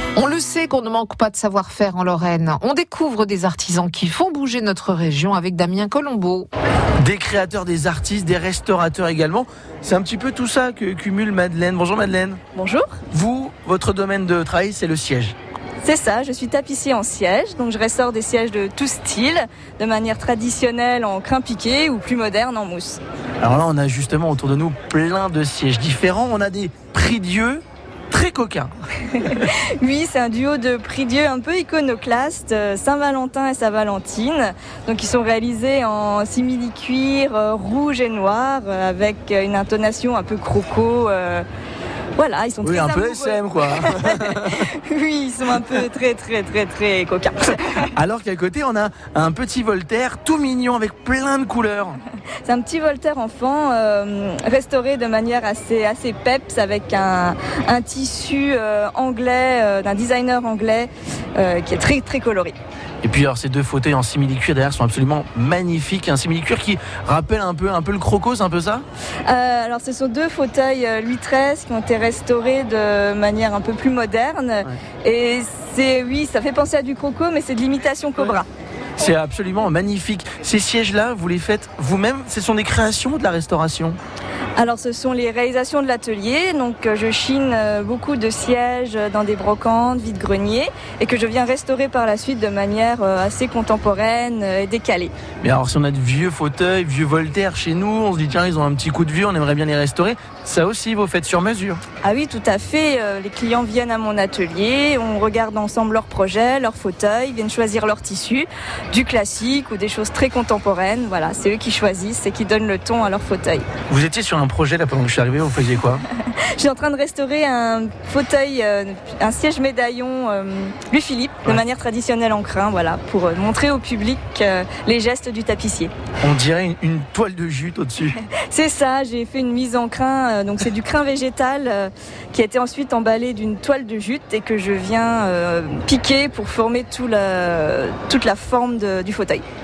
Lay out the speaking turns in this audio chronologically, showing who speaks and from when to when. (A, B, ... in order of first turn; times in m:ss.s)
0:00.2-0:06.5 A
0:07.0-0:12.4 B
0:12.6-0:13.0 C
0:13.1-0:15.4 B
0:15.8-0:23.0 C
0:23.4-0:29.5 B
0:29.1-0:41.4 C
0:42.2-0:47.9 C
0:42.6-0:44.7 B
0:47.9-0:52.0 B
0:52.4-1:02.6 C
1:03.0-1:08.8 B
1:09.3-1:18.5 C
1:19.0-1:24.0 B
1:24.6-1:35.1 C
1:35.4-1:41.8 B
1:42.0-1:53.7 C
1:53.9-1:56.0 B
1:56.2-2:05.9 C
2:06.2-2:08.2 B
2:08.2-2:19.4 C